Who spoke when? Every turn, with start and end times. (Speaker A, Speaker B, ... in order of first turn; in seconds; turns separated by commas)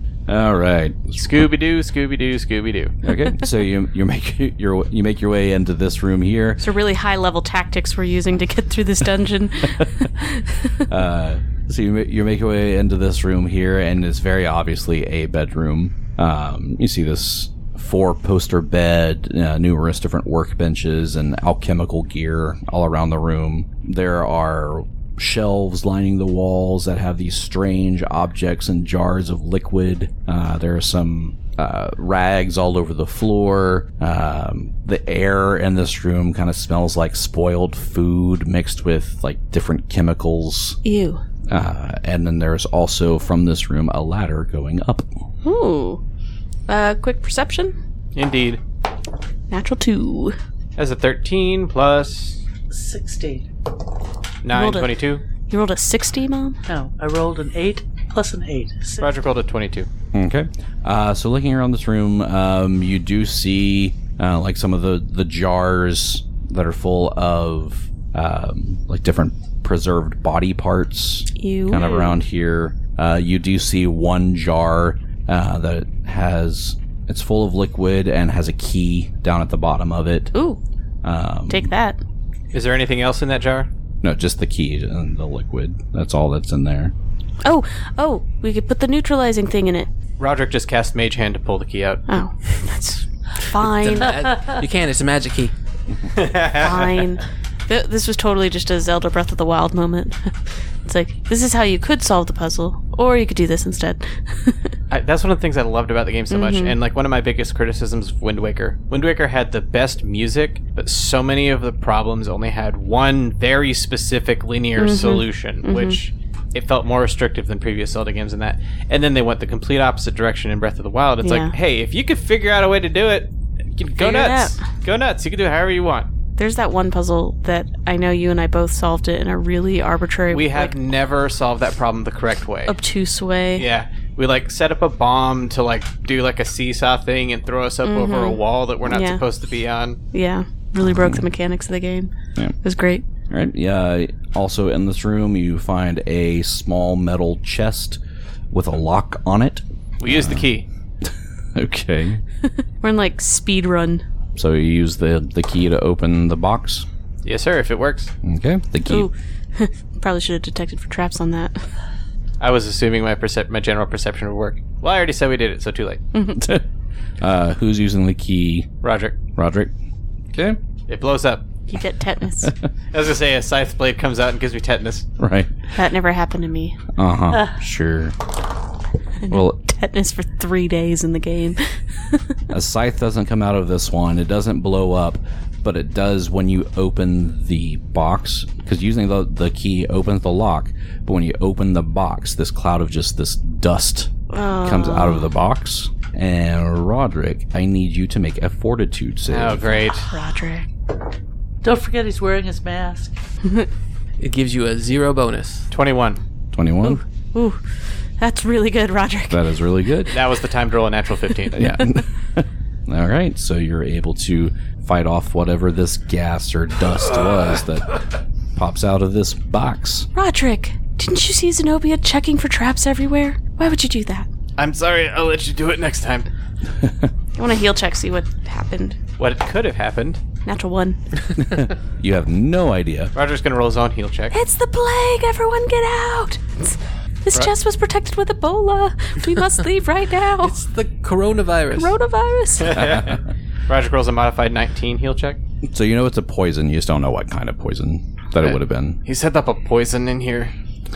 Speaker A: 0.3-1.5, Speaker B: 1.2-3.0, Speaker A: 3.0-6.6, Speaker C: 6.6-10.8, Speaker A: 10.9-40.8, Speaker C: 40.8-41.2, Speaker A: 41.5-45.1, Speaker C: 45.4-46.0, Speaker C: 46.7-47.8, Speaker B: 48.1-48.6, Speaker C: 49.5-50.4, Speaker B: 50.8-52.4, Speaker D: 52.7-53.5, Speaker B: 54.4-55.2, Speaker C: 54.5-55.0, Speaker C: 55.5-56.6, Speaker D: 56.7-59.1, Speaker B: 59.0-59.9, Speaker A: 60.1-80.3, Speaker C: 71.4-72.2, Speaker C: 80.3-80.6, Speaker A: 81.0-81.7, Speaker C: 81.5-82.0, Speaker B: 82.5-83.7, Speaker A: 84.0-86.9, Speaker C: 87.4-89.9, Speaker B: 90.2-92.0, Speaker C: 92.1-94.2, Speaker E: 93.6-95.5, Speaker B: 96.1-97.0, Speaker C: 96.6-100.3, Speaker C: 100.8-104.7, Speaker B: 104.9-126.1, Speaker C: 106.3-106.8, Speaker C: 114.8-116.0, Speaker C: 121.2-121.5, Speaker C: 124.0-124.6, Speaker C: 126.4-130.7, Speaker B: 130.3-132.8, Speaker C: 132.7-133.7, Speaker B: 133.6-140.0, Speaker C: 137.8-139.2, Speaker C: 140.1-143.0, Speaker A: 140.8-141.2, Speaker A: 143.3-148.0, Speaker A: 148.5-150.5, Speaker B: 150.0-150.7, Speaker A: 151.0-152.2, Speaker C: 152.8-154.1, Speaker A: 154.4-156.9, Speaker B: 157.2-158.1, Speaker A: 158.2-159.1, Speaker C: 158.8-161.6, Speaker B: 162.4-166.0, Speaker C: 166.1-166.4, Speaker A: 166.3-166.6, Speaker A: 167.2-168.7, Speaker B: 168.8-169.2, Speaker A: 169.4-169.7, Speaker A: 170.3-170.6, Speaker B: 170.9-171.5, Speaker C: 171.7-172.5, Speaker B: 172.9-175.1, Speaker A: 175.2-175.5, Speaker C: 175.7-176.8, Speaker A: 176.9-178.2, Speaker C: 179.2-182.3, Speaker A: 179.3-179.6, Speaker A: 182.5-199.9, Speaker C: 194.3-195.3, Speaker B: 199.3-200.1, Speaker C: 200.1-200.7, Speaker D: 201.6-203.1, Speaker E: 204.2-205.7, Speaker B: 205.7-206.2, Speaker A: 206.5-207.0, Speaker C: 206.8-209.4, Speaker A: 209.3-210.2, Speaker B: 210.1-211.7, Speaker A: 211.5-218.0, Speaker A: 218.6-220.1, Speaker C: 220.1-224.3, Speaker B: 224.6-226.3, Speaker A: 226.8-227.1, Speaker C: 227.4-229.0, Speaker B: 229.2-230.2, Speaker C: 230.4-231.0, Speaker A: 231.4-233.1, Speaker B: 233.2-234.3, Speaker C: 234.3-240.6, Speaker E: 240.4-242.0, Speaker C: 241.7-242.8, Speaker B: 242.6-245.4, Speaker A: 242.8-243.2, Speaker A: 245.7-249.0, Speaker B: 248.4-250.5